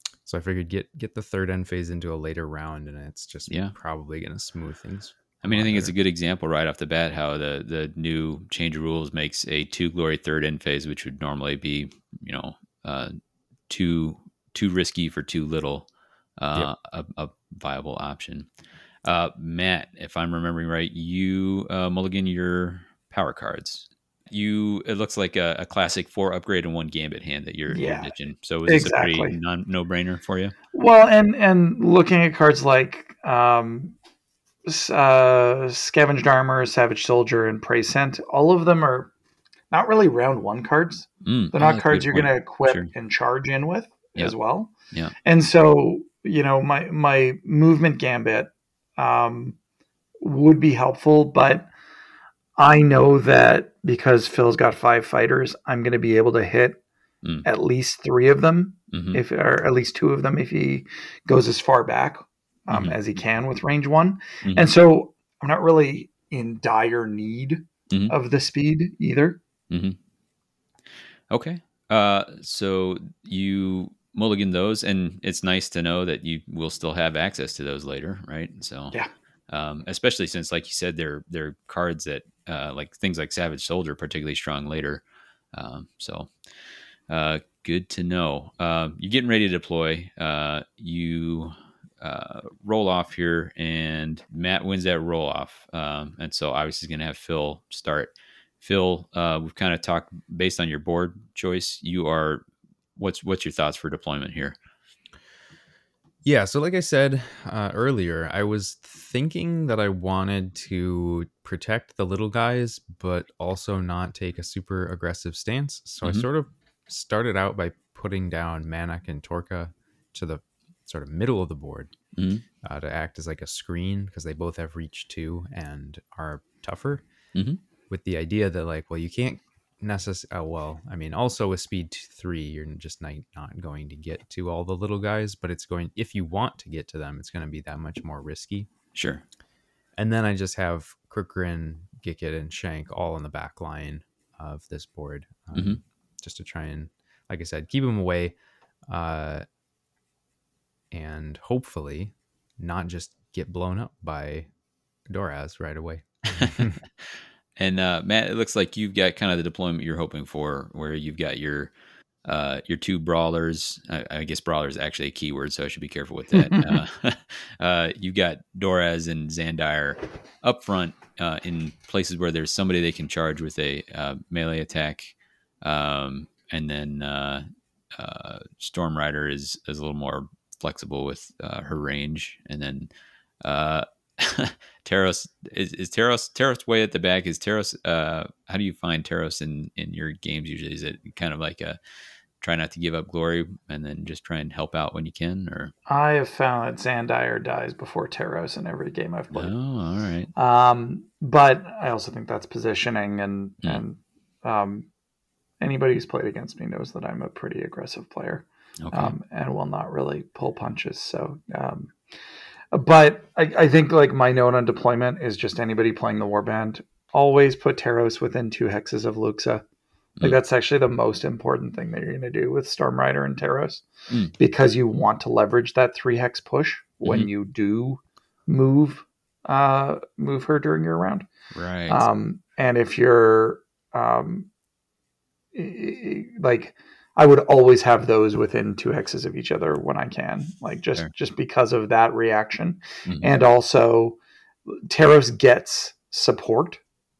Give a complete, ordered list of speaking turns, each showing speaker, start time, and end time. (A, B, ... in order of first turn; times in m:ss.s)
0:00.2-0:05.9 A
0:05.4-0:13.1 B
0:13.7-0:18.5 B
0:19.0-0:30.5 B
0:27.7-0:28.1 C
0:28.7-0:29.4 C
0:30.7-0:34.0 C
0:34.6-0:39.1 C
0:39.7-0:44.7 C
0:41.2-0:42.9 B
0:45.2-0:49.6 C
0:50.2-0:51.7 C
0:52.6-0:56.8 C
0:57.4-1:09.4 C
0:58.9-0:59.2 B
1:02.7-1:03.0 B
1:09.7-1:10.0 B
1:11.3-1:19.0 B
1:19.5-1:26.3 B
1:27.1-1:42.4 B
1:43.0-1:44.6 B
1:46.2-2:01.9 A
2:02.2-2:02.4 B
2:02.6-2:07.0 A
2:07.9-2:18.7 A
2:18.9-2:19.2 B
2:20.0-2:28.3 A
2:25.5-2:25.8 B
2:28.9-2:29.4 A
2:30.9-2:34.5 A
2:35.1-2:36.8 A
2:37.6-2:41.7 B
2:42.2-3:02.9 B
2:46.3-2:46.8 A
3:03.4-3:11.8 B
3:12.4-3:15.7 B
3:15.9-3:19.5 C
3:19.3-3:20.3 B
3:20.3-3:24.9 C
3:25.6-3:31.9 C
3:28.8-3:29.1 B
3:32.7-3:39.6 C
3:40.2-3:43.8 C
3:44.4-3:51.2 C
3:51.5-3:52.0 B
3:51.9-3:54.5 C
3:55.5-4:04.2 C
4:04.7-4:06.8 C